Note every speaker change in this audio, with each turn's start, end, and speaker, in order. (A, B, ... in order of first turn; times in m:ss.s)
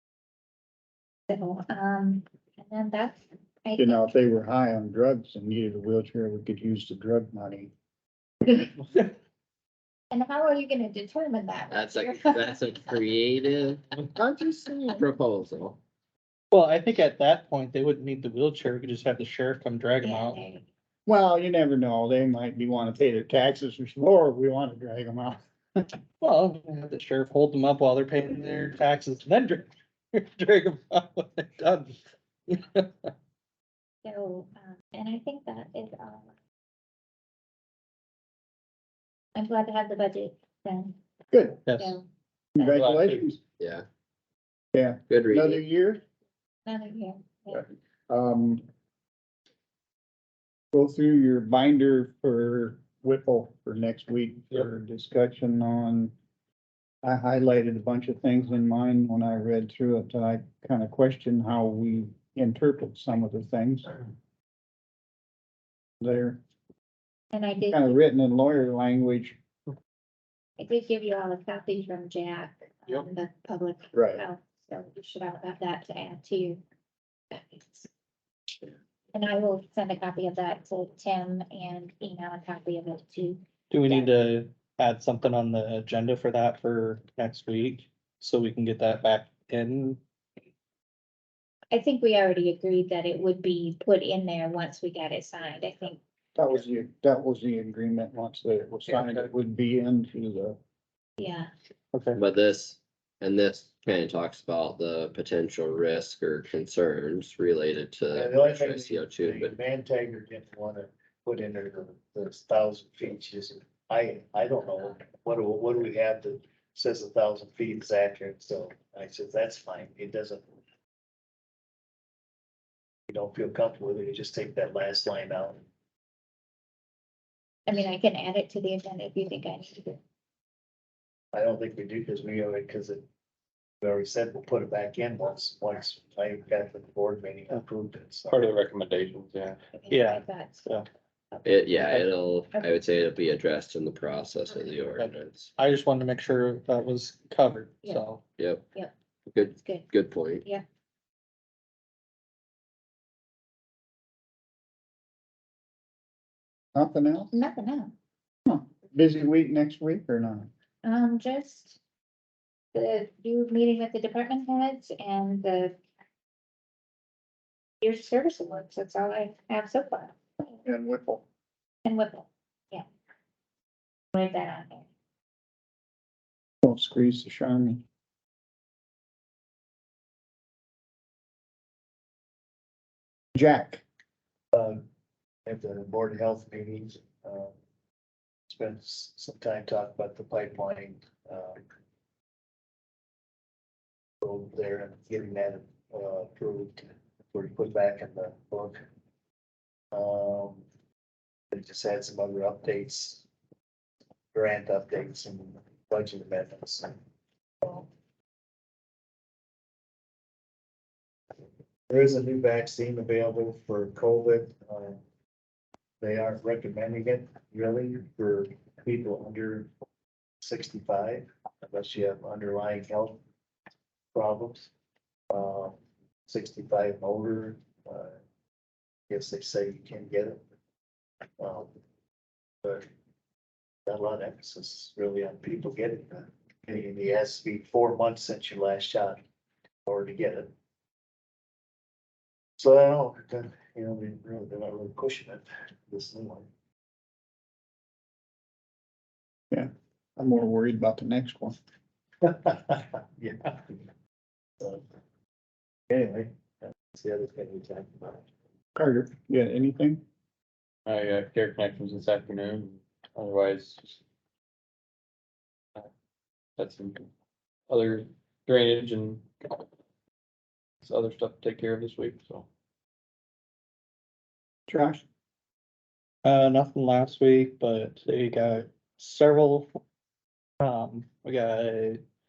0:01.3-0:04.0 A
0:03.8-0:07.7 B
0:10.1-0:12.9 A
0:11.7-0:14.1 C
0:14.1-0:15.0 B
0:14.9-0:15.8 C
0:16.5-0:20.4 D
0:20.0-0:20.6 A
0:21.0-0:25.9 B
0:26.2-0:31.9 D
0:32.5-0:33.1 D
0:34.0-0:36.3 A
0:39.3-0:41.0 A
0:41.3-0:41.6 B
0:41.6-0:42.0 D
0:41.8-0:42.0 A
0:42.5-0:43.4 B
0:42.6-0:43.2 E
0:43.6-0:43.9 C
0:44.7-0:46.0 B
0:45.1-0:45.6 C
0:46.6-0:47.6 A
0:47.5-0:48.6 B
0:50.7-0:56.1 B
0:57.0-1:03.9 B
1:06.0-1:06.4 B
1:07.3-1:08.0 A
1:07.7-1:09.4 B
1:10.6-1:16.6 A
1:13.9-1:14.2 B
1:17.3-1:17.9 A
1:19.1-1:24.1 A
1:23.7-1:30.0 D
1:31.7-1:36.0 A
1:36.4-1:40.6 B
1:38.9-1:39.3 E
1:41.2-1:41.5 A
1:41.9-1:42.2 D
1:42.1-1:49.6 C
1:48.1-2:00.4 F
2:03.1-2:05.6 F
2:07.7-2:10.0 A
2:11.3-2:13.0 F
2:13.8-2:18.5 F
2:18.3-2:19.6 E
2:19.7-2:20.6 A
2:19.9-2:20.8 D
2:21.3-2:22.7 A
2:21.4-2:25.5 C
2:25.0-2:28.2 D
2:28.4-2:28.6 C
2:28.7-2:29.9 A
2:29.3-2:30.4 C
2:36.7-2:37.3 B
2:37.3-2:37.9 A
2:38.4-2:40.5 B
2:40.8-2:41.8 A
2:42.7-2:45.8 A
2:47.8-2:50.2 A
2:50.6-2:51.2 B
2:51.8-2:52.8 A
2:54.1-2:54.8 A
2:56.6-2:57.8 B
3:03.3-3:03.8 B
3:04.5-3:04.8 F
3:05.4-3:07.5 F
3:08.5-3:11.6 F
3:14.2-3:18.8 F
3:19.9-3:20.6 F
3:21.5-3:23.2 F
3:24.3-3:26.9 F
3:27.6-3:27.9 F
3:31.9-3:35.0 F
3:36.0-3:39.7 F
3:40.4-3:43.2 F
3:44.1-3:44.7 F
3:45.3-3:48.1 F
3:49.1-3:50.4 F
3:51.4-3:51.7 F
3:53.9-3:59.2 F
3:59.8-4:00.5 F
4:02.6-4:06.5 F
4:09.5-4:11.6 B
4:12.2-4:13.8 F
4:15.9-4:18.2 F
4:18.7-4:20.0 B
4:20.8-4:24.0 E
4:26.6-4:27.1 E
4:27.7-4:29.2 E
4:30.8-4:32.5 E
4:34.7-4:35.0 B
4:36.2-4:39.7 D
4:40.6-4:42.0 D